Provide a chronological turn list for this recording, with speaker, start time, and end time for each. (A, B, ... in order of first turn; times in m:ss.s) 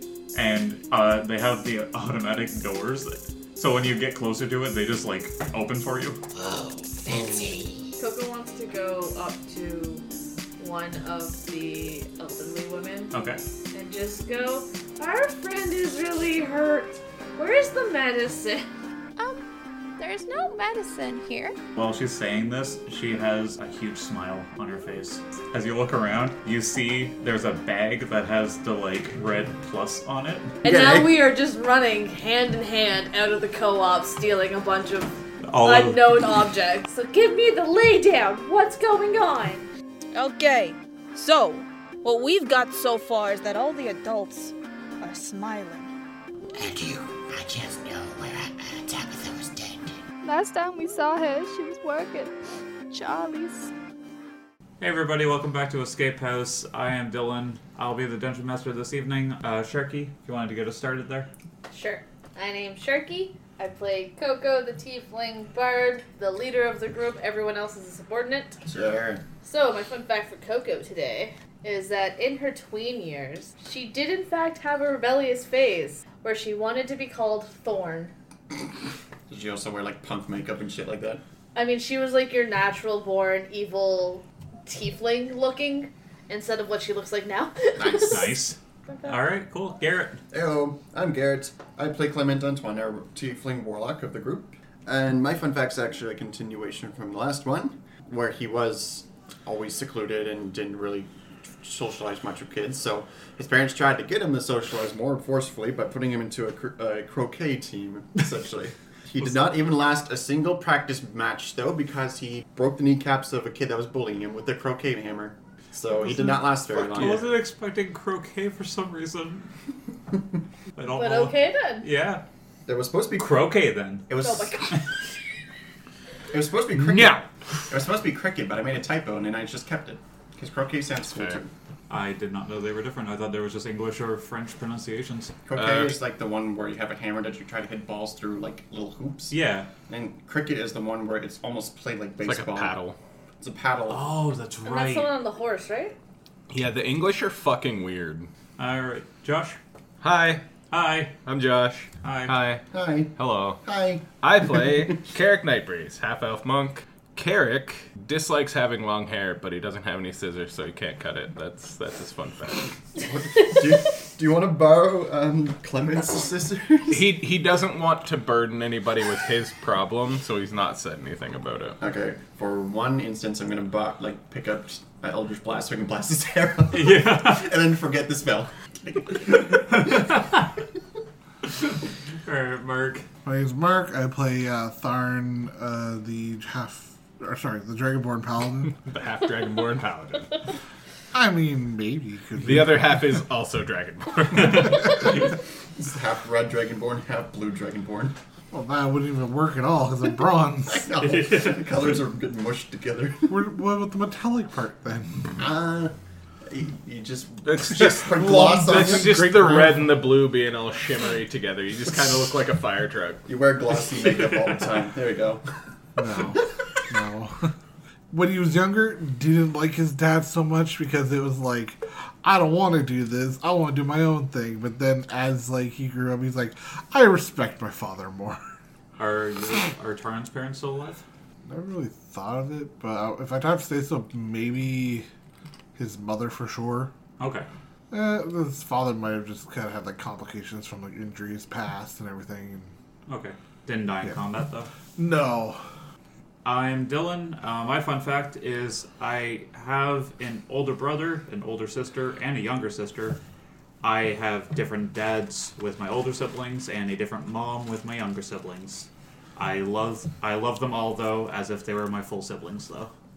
0:00.3-0:06.2 A
0:06.3-0:08.0 B
0:08.0-0:10.0 C
0:10.6-0:13.1 C
0:13.1-0:13.4 A
0:13.7-0:18.7 C
0:20.0-0:21.5 D
0:21.7-0:30.5 A
0:30.6-0:31.1 E
0:30.6-0:39.7 C
0:35.4-0:36.2 A
0:40.1-0:45.9 F
0:46.5-0:50.0 B
0:50.2-0:52.3 D
0:52.9-0:53.7 D
0:54.8-1:01.3 A
1:01.7-1:08.6 C
1:08.6-1:09.2 E
1:09.4-1:18.1 C
1:19.3-1:21.2 E
1:21.5-1:28.3 C
1:27.8-1:28.3 E
1:28.0-1:30.2 A
1:28.9-1:29.2 C
1:30.3-1:57.4 E
1:56.7-1:59.5 A
2:00.8-2:02.2 A
2:00.9-2:01.9 C
2:02.6-2:03.5 E
2:03.2-2:04.1 A
2:04.1-2:04.7 E
2:04.2-2:04.8 C
2:06.3-2:11.5 E
2:06.8-2:07.2 G
2:11.1-2:11.4 G
2:11.9-2:15.3 A
2:15.4-2:19.3 E
2:15.6-2:16.0 G
2:19.3-2:19.7 A
2:19.9-2:22.8 E
2:22.2-2:23.0 G
2:23.4-2:24.1 E
2:23.9-2:25.1 A
2:24.6-2:25.9 C
2:26.5-2:28.3 G
2:28.6-2:29.6 A
2:30.0-2:30.4 G
2:30.7-2:31.2 A
2:31.2-2:33.6 G
2:32.0-2:32.4 A
2:32.7-2:34.9 E
2:34.2-2:42.8 G
2:43.0-2:47.1 E
2:46.9-2:51.8 G
2:51.8-3:00.4 E
2:56.7-2:57.5 A
2:59.7-3:00.3 A
3:02.2-3:03.0 A
3:03.2-3:08.8 H
3:08.7-3:10.5 G
3:11.1-3:13.2 H
3:12.4-3:15.2 G
3:15.8-3:18.2 E
3:18.5-3:20.9 H
3:20.6-3:23.4 E
3:21.0-3:21.6 A
3:23.3-3:25.4 H
3:25.4-3:25.9 E
3:26.4-3:29.4 E
3:27.4-3:33.3 G
3:28.0-3:29.9 H
3:33.2-3:35.4 E
3:34.0-3:34.6 A
3:36.0-3:37.5 H
3:38.1-3:48.4 H
3:49.0-3:51.0 A
3:51.4-3:55.1 H
3:55.7-3:56.9 H
3:57.2-3:57.5 A
3:57.9-4:02.7 H
4:03.1-4:04.7 A
4:05.0-4:05.6 H
4:06.4-4:13.2 A
4:13.8-4:22.9 A